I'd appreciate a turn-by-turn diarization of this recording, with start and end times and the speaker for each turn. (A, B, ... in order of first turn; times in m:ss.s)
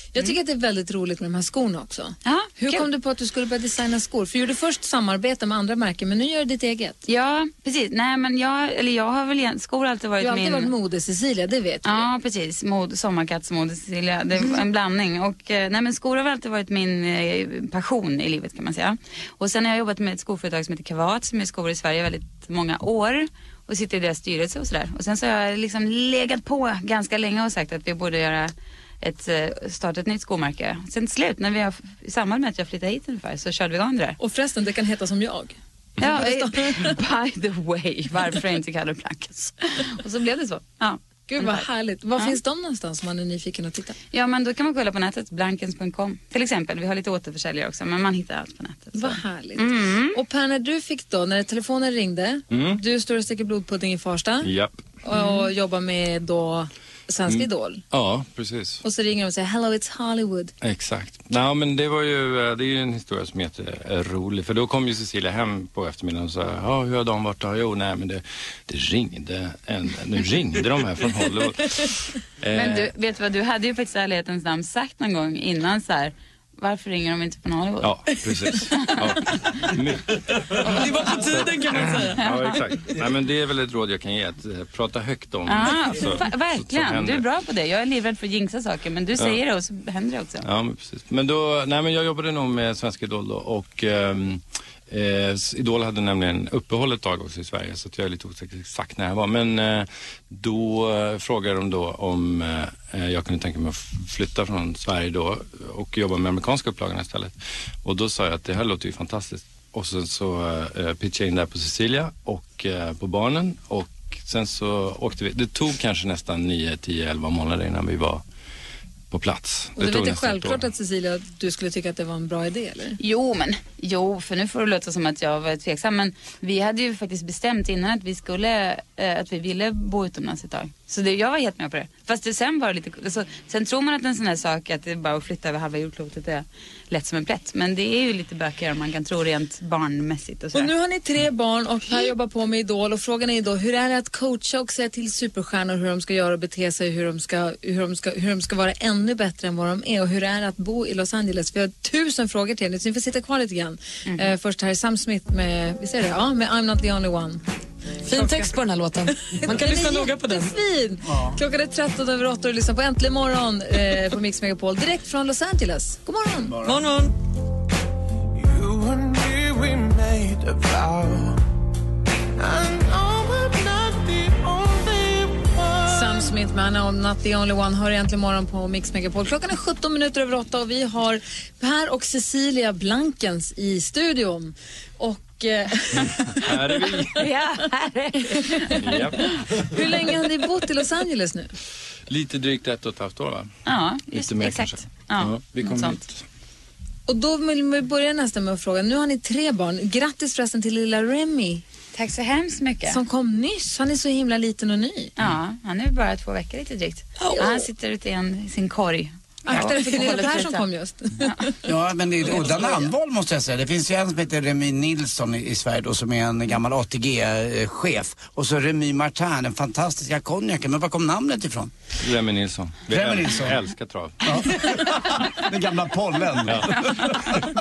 0:00.1-0:07.0 A
0:02.2-0:02.9 B
0:07.1-0:10.7 B
0:10.2-0:12.1 A
0:11.8-0:34.2 B
0:34.2-0:37.0 A
0:36.0-0:41.6 B
0:41.3-0:44.0 A
0:44.1-0:50.2 B
0:48.9-0:54.5 A
0:52.5-0:52.8 C
0:54.4-0:54.8 C
0:55.0-0:57.8 A
0:55.1-0:55.5 B
0:57.3-0:58.8 C
0:58.8-1:00.5 A
1:00.6-1:12.9 C
1:12.5-1:19.4 B
1:17.8-1:27.2 C
1:20.6-1:22.3 D
1:25.4-1:30.4 B
1:30.4-1:58.2 C
1:59.1-2:00.6 C
1:59.8-2:03.0 A
2:03.0-2:20.7 B
2:20.5-2:37.4 A
2:38.0-2:40.5 D
2:38.1-2:38.5 A
2:39.4-2:46.6 A
2:41.0-2:41.4 E
2:46.5-2:46.8 E
2:46.6-2:47.1 D
2:48.4-2:51.4 F
2:52.4-2:56.3 F
2:55.8-3:06.8 A
3:06.0-3:07.2 C
3:07.1-3:09.3 B
3:08.7-3:09.6 C
3:09.6-3:11.5 A
3:12.1-3:13.5 C
3:13.6-3:16.0 B
3:14.1-3:16.2 C
3:17.1-3:21.6 A
3:21.9-3:23.0 B
3:22.9-3:25.1 A
3:25.2-3:30.6 B
3:27.2-3:27.6 D
3:29.4-3:31.6 A
3:31.6-3:41.7 E
3:42.0-3:44.6 C
3:42.9-3:43.6 E
3:44.2-3:47.4 E
3:46.4-3:47.1 C